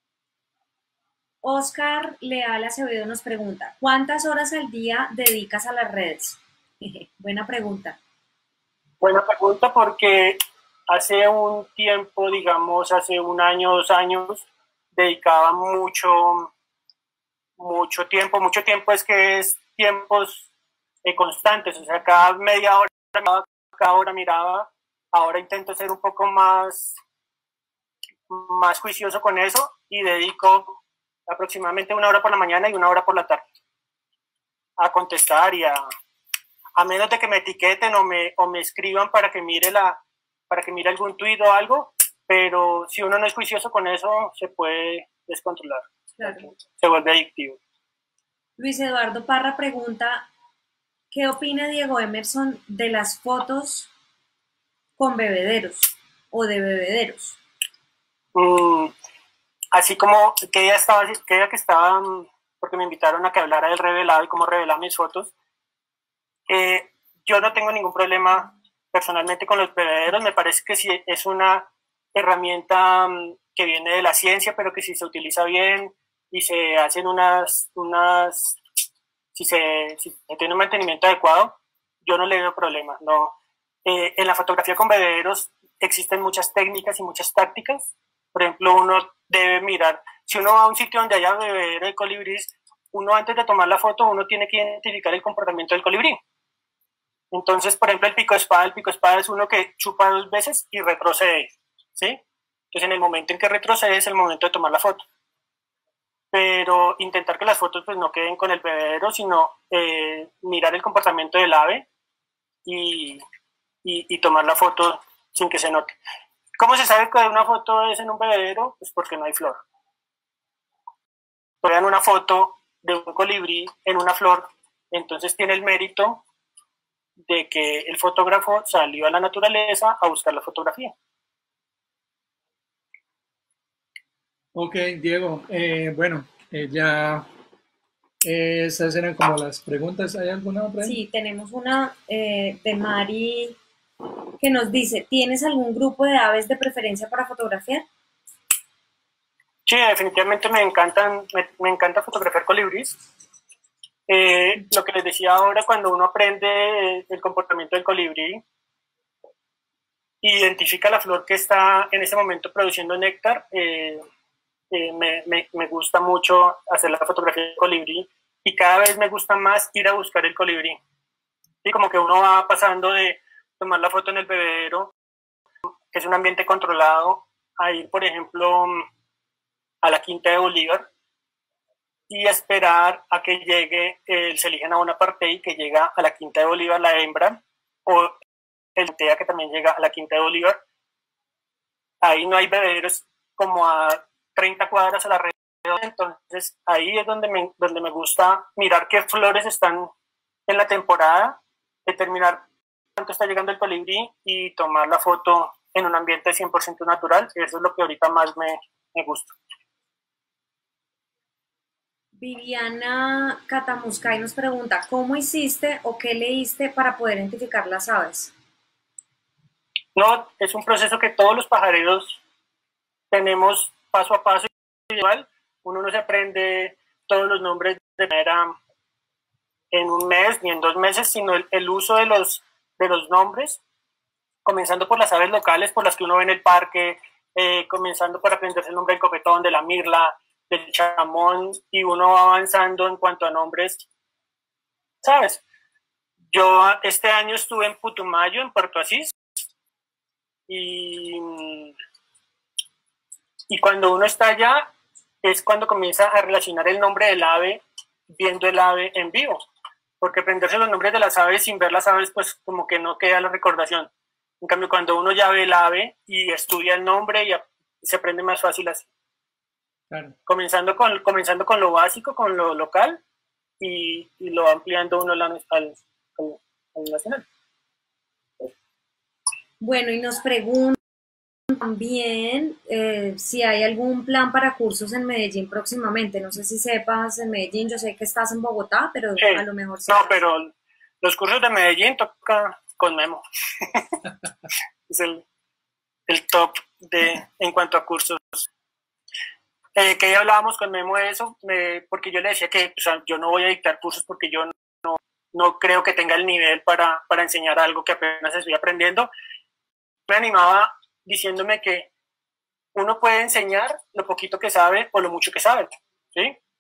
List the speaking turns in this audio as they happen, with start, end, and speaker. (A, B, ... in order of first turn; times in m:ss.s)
0:01.4-0:08.0 A
0:09.0-0:10.4 B
0:10.9-0:16.5 B
0:17.6-0:20.5 B
0:21.0-0:27.0 B
0:28.3-0:30.8 B
0:31.3-0:33.4 B
0:34.8-0:35.8 B
0:36.8-0:47.6 B
0:46.2-0:46.5 A
0:48.6-0:50.3 A
0:51.1-0:53.9 A
0:55.0-0:57.4 A
0:58.4-0:58.9 B
0:59.7-1:05.3 B
1:06.5-1:18.6 B
1:19.4-1:36.2 B
1:37.3-1:42.2 B
1:42.7-1:45.0 B
1:46.3-1:51.9 B
1:52.6-1:53.2 B
1:53.8-1:56.0 B
1:56.6-1:59.6 B
2:01.6-2:06.2 B
2:07.3-2:10.9 B
2:14.5-2:17.3 C
2:18.2-2:21.0 C
2:20.8-2:23.6 A
2:24.4-2:27.8 A
2:29.7-2:33.0 B
2:34.1-2:38.4 B
2:40.2-2:44.0 B
2:44.7-2:50.8 B
2:51.6-2:54.9 B
2:55.9-2:58.9 B
2:59.8-3:00.9 B
3:02.1-3:08.2 B
3:08.8-3:10.6 B
3:12.0-3:19.9 B
3:20.5-3:22.4 B
3:23.0-3:29.4 B
3:32.2-3:38.3 A
3:40.0-3:42.2 B
3:43.1-3:48.6 B
3:49.7-3:53.6 B
3:54.4-4:03.8 B
4:05.0-4:05.4 B
4:06.3-4:09.2 B
4:10.5-4:11.7 B
4:13.5-4:14.7 B
4:15.2-4:19.5 B
4:20.0-4:23.9 B
4:24.4-4:28.9 B
4:29.9-4:30.2 C
4:30.3-4:33.0 B
4:33.6-4:37.2 B
4:39.6-4:40.8 A
4:41.5-4:50.2 A
4:49.2-4:54.0 B
4:54.9-4:55.2 B
4:56.1-4:58.5 B
4:59.8-5:09.1 B
5:10.1-5:11.9 B
5:12.7-5:16.4 B